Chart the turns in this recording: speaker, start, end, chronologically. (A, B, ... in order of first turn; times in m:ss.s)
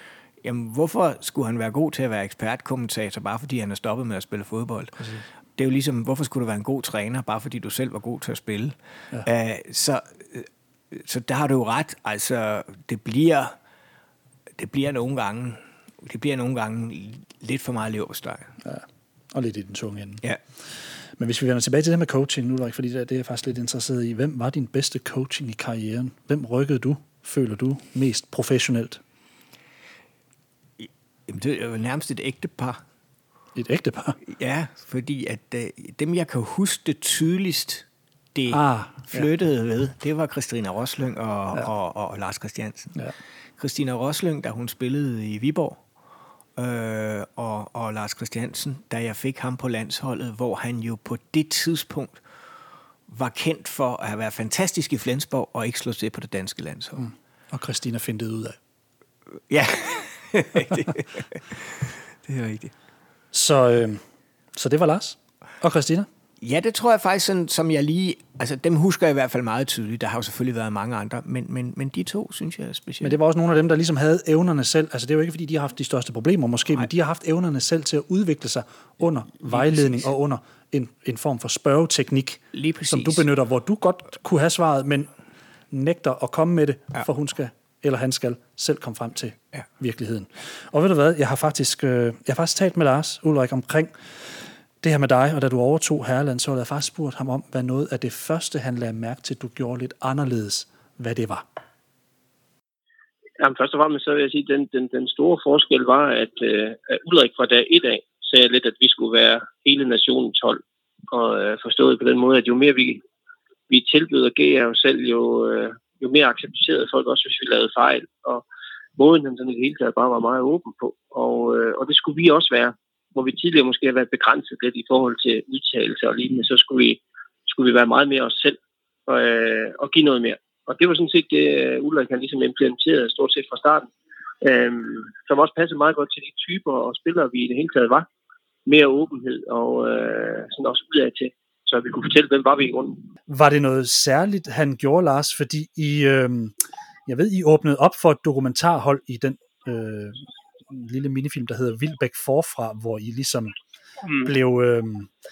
0:00.4-0:13.5 A
0:14.6-0:18.5 A
0:18.6-0:20.2 B
0:21.2-0:29.0 B
0:30.8-0:32.8 A
0:33.5-0:34.2 B
0:34.2-0:43.0 A
0:38.5-0:39.3 B
0:43.6-0:45.8 A
0:46.6-0:52.2 A
0:53.1-0:57.0 A
0:57.0-0:58.6 B
0:59.5-1:02.7 A
1:03.3-1:04.0 B
1:04.5-1:06.1 B
1:06.4-1:13.2 A
1:13.0-1:25.1 B
1:19.4-1:20.0 A
1:22.5-1:23.3 A
1:25.7-1:41.4 B
1:43.4-1:53.0 C
1:53.7-1:58.4 C
1:59.0-2:13.9 C
2:14.4-2:18.1 C
2:18.6-2:23.0 C
2:23.3-2:26.5 B
2:27.0-2:33.5 B
2:34.2-2:35.1 B